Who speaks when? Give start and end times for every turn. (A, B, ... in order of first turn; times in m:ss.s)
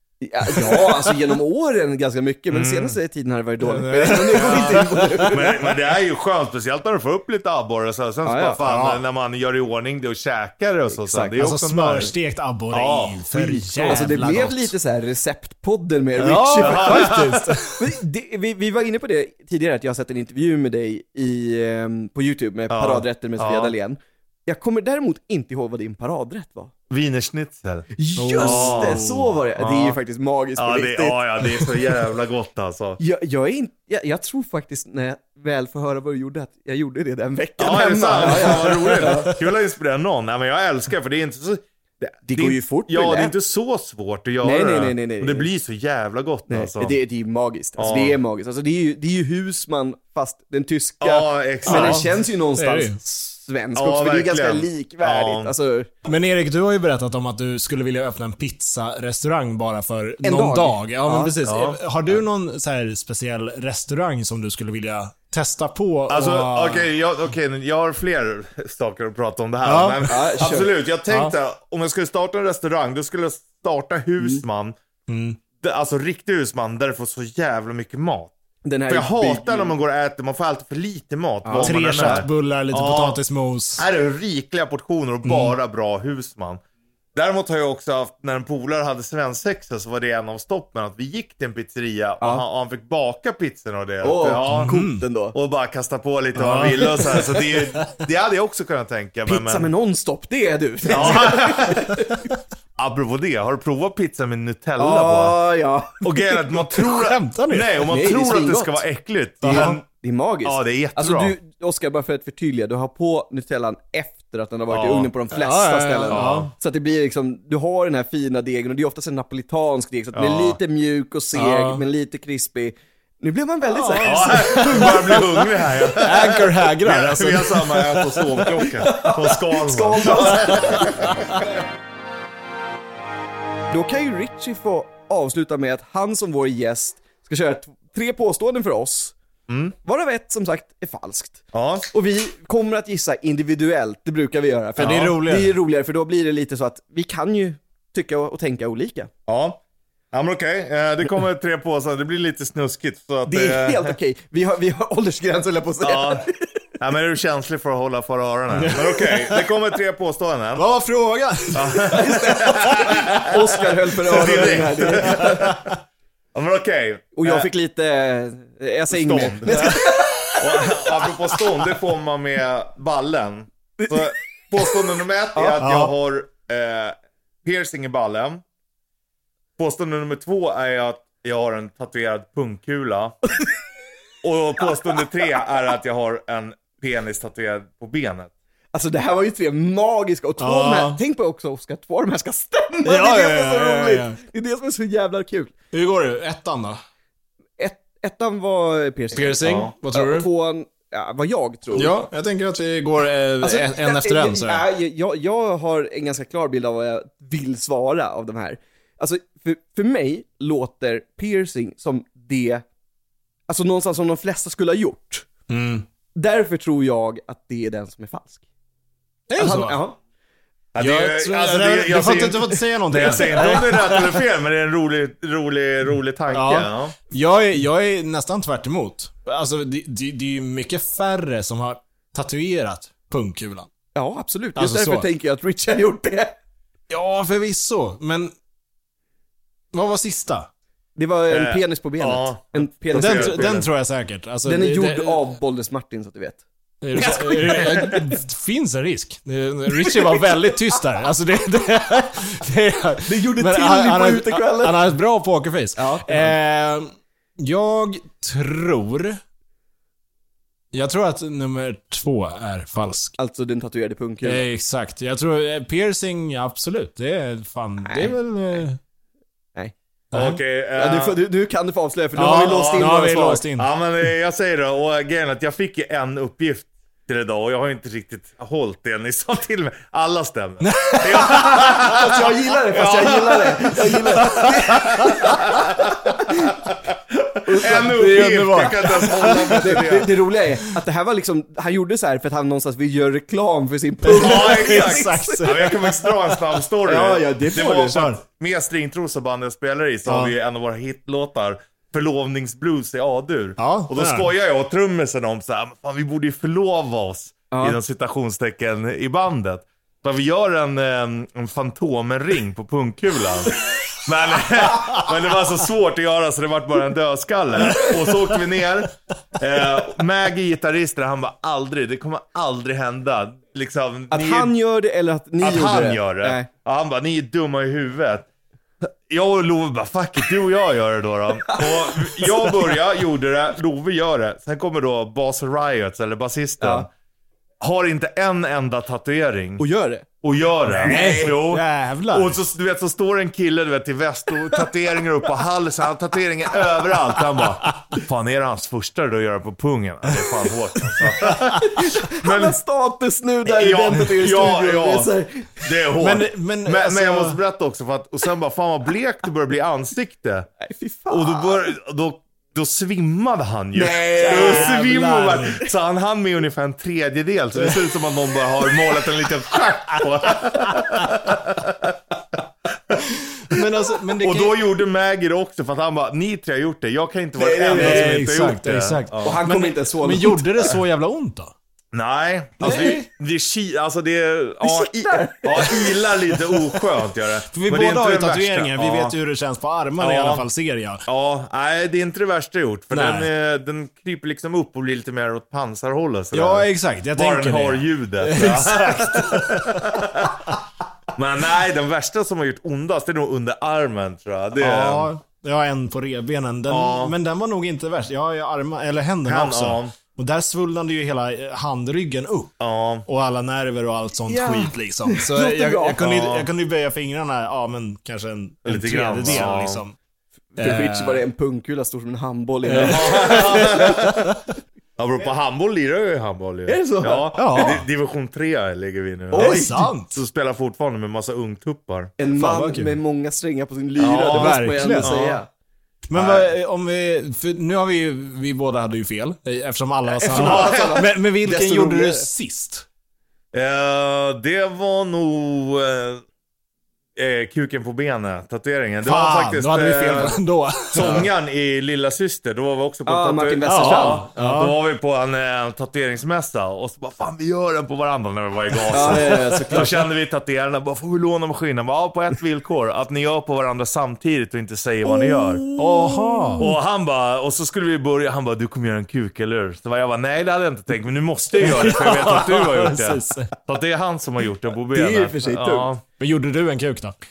0:00.2-0:05.7 A
0:00.5-0:01.2 B
0:02.5-0:03.0 C
0:03.6-0:05.3 B
0:04.4-0:04.8 C
0:05.3-0:12.1 C
0:08.2-0:08.6 A
0:08.6-0:09.0 B
0:10.9-0:11.3 A
0:11.4-0:14.7 B
0:12.7-0:14.1 C
0:13.8-0:26.7 A
0:16.2-0:17.8 B
0:16.2-0:17.5 C
0:22.7-0:23.7 C
0:26.9-0:30.0 C
0:27.9-0:31.6 A
0:28.2-0:29.2 B
0:30.6-0:33.0 C
0:33.0-0:39.3 A
0:37.6-0:47.0 C
0:38.2-0:39.4 B
0:42.3-0:43.3 A
0:44.4-0:45.5 A
0:46.5-0:55.9 A
0:47.8-0:48.2 C
0:51.0-0:52.0 C
0:51.6-0:53.0 B
0:53.7-0:55.5 C
0:56.0-1:06.9 B
1:00.2-1:01.3 A
1:01.4-1:02.2 C
1:06.1-1:14.8 C
1:09.6-1:10.4 B
1:10.1-1:10.7 A
1:15.1-1:15.4 B
1:15.6-1:18.3 C
1:18.6-1:19.7 A
1:18.9-1:23.2 C
1:21.4-1:22.2 A
1:21.6-1:23.8 B
1:23.8-1:26.6 C
1:25.2-1:25.5 B
1:27.1-1:34.8 C
1:34.0-1:35.3 A
1:34.5-1:35.0 B
1:35.3-1:39.7 C
1:36.4-1:38.0 B
1:39.2-1:42.2 A
1:40.9-1:41.9 C
1:42.8-1:45.4 C
1:44.8-1:46.3 A
1:46.0-1:49.8 C
1:46.7-1:47.8 B
1:47.9-1:48.8 A
1:49.4-1:49.8 B
1:49.4-2:06.0 A
1:50.4-1:51.3 C
1:54.7-1:55.1 C
1:55.3-1:56.5 B
1:56.1-1:56.5 C
2:00.1-2:00.6 C
2:01.3-2:01.8 B
2:03.7-2:05.2 B
2:04.0-2:11.3 C
2:05.9-2:08.6 B
2:08.6-2:11.4 A
2:10.2-2:11.4 B
2:13.7-2:19.1 A
2:19.5-2:19.7 C
2:19.8-2:29.1 A
2:21.5-2:21.9 C
2:24.8-2:25.5 B
2:29.3-2:29.6 C
2:30.1-2:33.9 C
2:33.2-2:36.6 A
2:35.8-2:36.2 C
2:36.8-2:40.6 C
2:38.5-2:39.5 B
2:40.6-2:42.7 B
2:41.5-2:45.7 C
2:41.9-2:45.6 A
2:44.3-2:45.8 B
2:46.3-2:47.5 C
2:47.2-2:51.0 A
2:48.9-2:58.4 C
2:49.5-2:50.3 B
2:53.8-2:54.1 A
2:55.3-2:55.6 A
2:55.6-2:55.9 B
2:59.6-3:03.2 C
3:04.2-3:08.3 C
3:08.7-3:15.5 A
3:10.4-3:11.0 B
3:12.8-3:14.2 B
3:15.7-3:16.8 B
3:17.6-3:22.0 A
3:19.1-3:20.3 B
3:19.4-3:19.7 C
3:21.7-3:24.6 B
3:23.4-3:32.6 A
3:33.5-3:35.3 A
3:35.5-3:35.8 B
3:36.1-3:38.4 A
3:39.3-3:39.8 B
3:39.4-3:40.0 A
3:40.7-3:46.9 C
3:40.8-3:44.2 B
3:43.0-3:43.6 A
3:46.3-3:53.7 B
3:53.9-3:56.4 A
3:54.6-3:55.1 B
3:56.9-3:58.3 B
3:59.7-4:00.5 B
4:01.0-4:03.6 A
4:01.3-4:03.7 C
4:02.9-4:05.3 B
4:04.4-4:06.4 A
4:06.8-4:19.2 B
4:06.9-4:08.0 A
4:09.7-4:10.8 A
4:13.0-4:14.8 A
4:15.8-4:16.3 A
4:20.7-4:23.2 B
4:23.2-4:24.4 A
4:24.2-4:28.8 B
4:27.8-4:28.2 A
4:30.1-4:30.4 B
4:30.1-4:31.2 C
4:30.7-4:33.4 A
4:32.2-4:33.7 B
4:32.4-4:50.1 C
4:40.6-4:41.8 B
4:41.2-4:46.6 A
4:44.0-4:45.4 B
4:47.4-4:56.0 A
4:48.0-4:50.0 B
4:54.0-4:55.9 B
4:54.1-5:24.5 C
4:56.8-4:58.2 A
5:00.0-5:00.3 B
5:03.6-5:04.3 B
5:07.5-5:07.8 A
5:24.1-5:26.5 A
5:25.4-5:28.3 C
5:28.8-5:36.9 C
5:31.4-5:32.7 A
5:36.6-5:36.9 A
5:37.6-5:39.6 C
5:39.6-5:40.0 A
5:40.2-5:52.6 C
5:40.7-5:42.4 B
5:40.8-5:41.4 A
5:51.4-5:55.6 A
5:53.4-6:00.5 C
5:56.0-5:57.4 B
6:00.6-6:01.7 A
6:01.1-6:12.0 C
6:03.7-6:05.0 A
6:04.1-6:05.6 B
6:07.6-6:07.8 B
6:09.5-6:10.0 B
6:10.7-6:11.0 B
6:12.9-6:13.6 C
6:13.0-6:14.6 B
6:14.2-6:19.4 C
6:17.4-6:18.1 A
6:17.7-6:21.5 B
6:19.2-6:20.5 A
6:21.9-6:29.1 C
6:22.6-6:23.0 A
6:22.6-6:23.0 B
6:24.6-6:26.5 A
6:27.5-6:31.0 B
6:30.0-6:30.4 C
6:31.1-6:40.5 C
6:32.9-6:33.3 B
6:36.3-6:40.6 B
6:41.1-6:45.1 C
6:44.6-6:52.5 B
6:46.7-6:47.1 C
6:49.2-6:49.9 C
6:52.6-6:53.0 C
6:53.0-6:59.9 B
6:54.3-6:56.0 A
6:56.0-6:56.5 C
6:58.6-6:59.8 C
7:00.5-7:04.1 A
7:00.6-7:01.2 B
7:02.7-7:04.4 B
7:02.8-7:04.2 C
7:05.0-7:12.1 C
7:06.6-7:07.8 A
7:07.3-7:07.8 B
7:09.3-7:09.9 A
7:09.3-7:10.2 B
7:12.2-7:15.5 A
7:12.2-7:13.0 B
7:14.0-7:15.4 C
7:14.1-7:15.1 B
7:16.1-7:22.8 B
7:16.1-7:16.5 C
7:20.1-7:22.2 A
7:20.3-7:21.0 C
7:23.5-7:26.2 C
7:27.2-7:30.4 C
7:29.0-7:31.3 B
7:30.9-7:45.6 C
7:33.0-7:34.3 A
7:33.6-7:34.8 B
7:38.8-7:39.9 B
7:38.9-7:39.9 A
7:45.0-7:46.7 A
7:45.8-7:46.7 B
7:46.6-7:56.0 C
7:51.6-7:53.5 B
7:54.9-7:55.9 A
7:56.2-7:57.1 B